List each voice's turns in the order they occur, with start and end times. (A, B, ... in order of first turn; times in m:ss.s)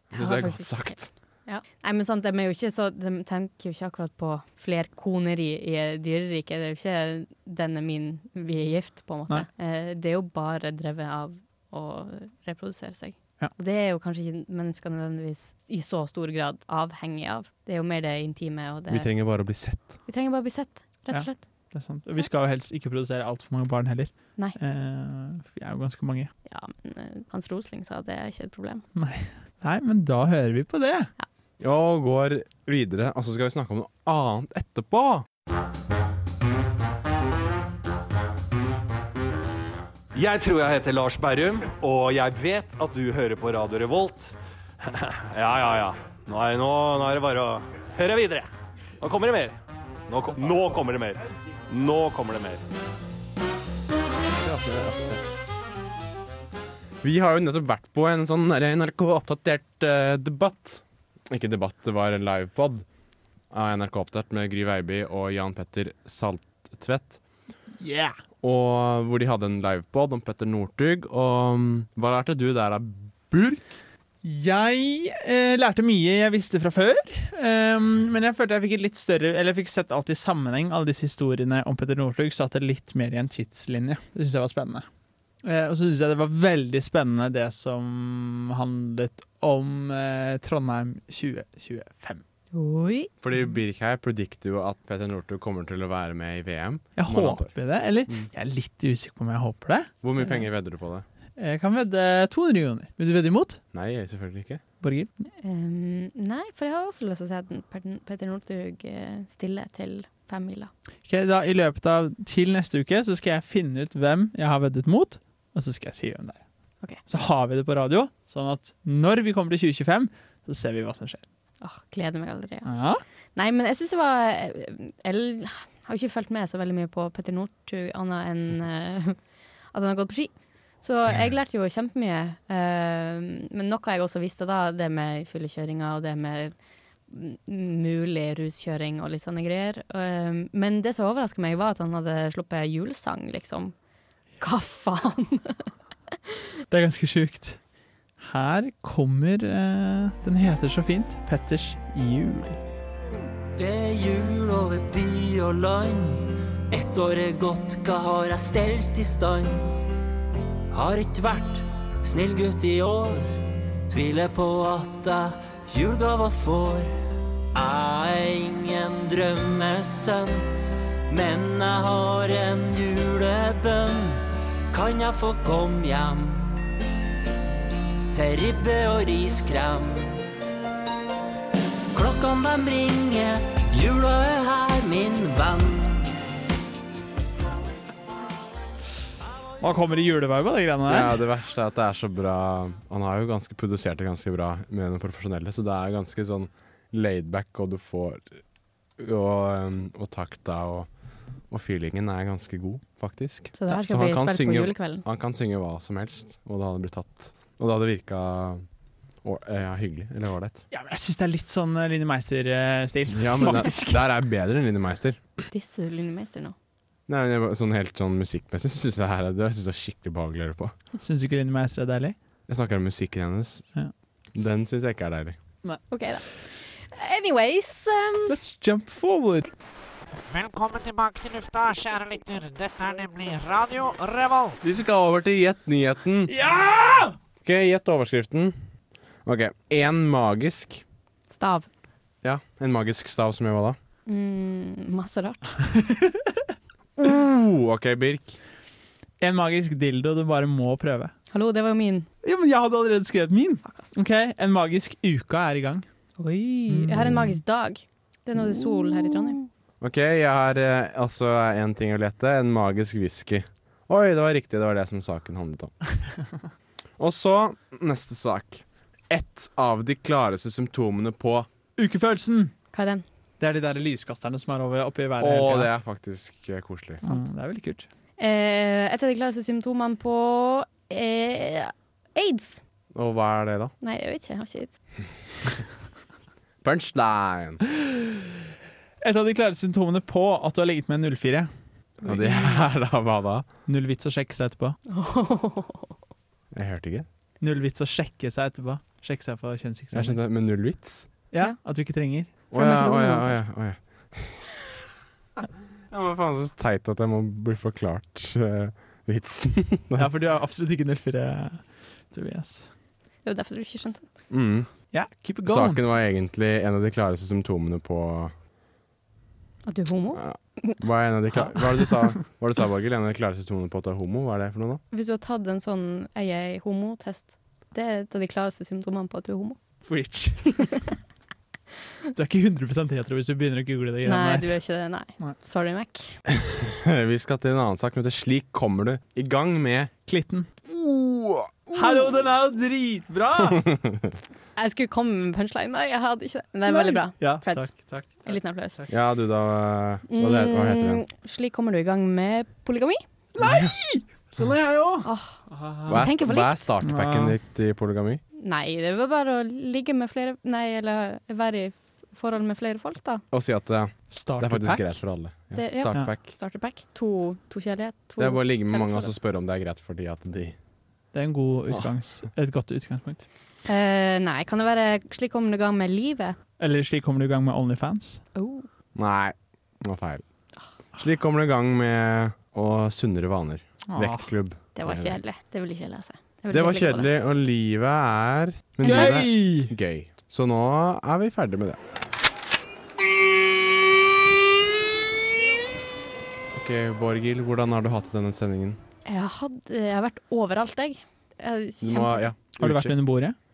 0:00.1-0:01.1 A
0:00.2-0:19.1 B
0:18.9-0:20.0 A
0:20.0-0:22.3 B
0:21.1-0:26.3 C
0:26.4-0:28.8 B
0:28.9-0:31.1 C
0:31.6-0:35.2 A
0:40.1-0:48.5 D
0:49.0-0:52.6 D
0:54.4-0:55.2 A
0:57.0-1:02.8 A
1:03.5-1:07.2 A
1:07.8-1:08.1 C
1:08.4-1:13.8 A
1:14.2-1:24.8 C
1:25.4-1:32.2 C
1:32.5-1:33.1 B
1:33.2-1:37.5 A
1:37.0-1:39.9 C
1:40.0-1:41.0 A
1:41.4-1:43.6 C
1:43.7-1:44.6 A
1:44.8-1:45.1 C
1:45.4-1:50.7 B
1:51.1-1:56.4 C
1:57.1-2:01.2 C
2:01.6-2:02.7 B
2:02.6-2:03.0 C
2:03.3-2:09.2 B
2:09.7-2:16.5 B
2:17.1-2:23.7 B
2:24.4-2:25.7 B
2:26.7-2:27.6 C
2:28.2-2:32.6 C
2:33.6-2:39.7 E
2:40.7-2:43.3 E
2:43.9-2:46.9 E
2:47.5-2:50.4 E
2:51.1-2:56.6 E
2:58.1-3:00.2 E
3:01.9-3:06.1 E
3:09.6-3:11.2 C
3:10.8-3:18.4 A
3:19.0-3:20.9 A
3:21.5-3:28.6 A
3:23.5-3:25.0 B
3:29.2-3:30.6 A
3:30.7-3:34.0 C
3:33.1-3:35.2 A
3:35.5-3:36.5 B
3:37.1-3:40.7 A
3:41.0-3:42.1 C
3:42.5-3:43.6 A
3:44.3-3:45.3 A
3:45.9-3:48.4 B
3:48.3-3:49.5 C
3:50.4-3:54.3 F
3:54.6-3:56.3 A
3:56.3-3:57.1 C
3:57.4-3:58.5 A
3:59.2-4:00.8 A
4:01.3-4:01.7 B
4:02.2-4:03.8 A
4:04.1-4:05.6 B
4:05.9-4:06.2 C
4:07.0-4:08.4 A
4:09.2-4:11.1 C
4:11.3-4:12.1 B
4:12.2-4:15.8 C
4:13.6-4:14.0 B
4:16.2-4:19.4 B
4:16.7-4:17.4 C
4:19.8-4:25.7 A
4:27.0-4:31.5 A
4:31.8-4:32.5 C
4:32.7-4:33.0 B
4:33.4-4:35.7 C
4:35.2-4:37.0 A
4:37.0-4:37.9 C
4:38.2-4:42.6 B
4:42.9-4:43.7 A
4:43.8-4:44.8 B
4:46.6-4:47.6 A
4:49.0-4:51.5 C
4:52.0-4:52.6 B
4:52.0-4:53.5 A
4:53.7-4:54.8 C
4:54.9-4:55.9 B
4:56.5-4:57.1 A
4:57.4-5:00.2 C
4:59.9-5:01.1 A
5:01.3-5:02.4 C
5:02.5-5:04.5 A
5:02.5-5:03.4 B
5:05.9-5:10.1 A
5:10.0-5:12.6 C
5:13.2-5:14.0 B
5:14.3-5:14.7 A
5:14.9-5:15.8 C
5:15.4-5:18.3 A
5:19.7-5:20.8 B
5:20.1-5:24.8 A
5:24.9-5:29.6 B
5:29.9-5:30.6 C
5:30.5-5:31.0 B
5:32.2-5:34.5 C
5:34.0-5:36.1 B
5:36.3-5:39.9 A
5:40.0-5:40.5 C
5:40.6-5:42.0 A
5:41.7-5:43.7 C
5:44.6-5:48.8 B
5:46.7-5:48.9 C
5:48.9-5:51.0 A
5:50.1-5:53.0 B
5:53.3-5:56.0 C
5:55.0-5:55.4 B
5:55.9-5:58.2 A
5:55.9-5:56.6 B
5:56.8-5:57.4 C
5:58.4-6:03.2 B
6:03.3-6:06.2 A
6:04.1-6:05.0 C
6:05.5-6:09.1 B
6:08.2-6:10.5 A
6:11.1-6:13.2 C
6:13.7-6:16.4 B
6:16.6-6:18.2 C
6:18.3-6:18.7 B
6:18.9-6:20.2 A
6:21.0-6:25.2 A
6:23.9-6:24.3 C
6:24.8-6:27.1 B
6:26.5-6:31.8 A
6:28.8-6:29.7 C
6:28.8-6:29.4 B
6:36.5-6:38.8 A
6:39.0-6:42.3 B
6:41.8-6:42.9 A
6:42.6-6:43.4 C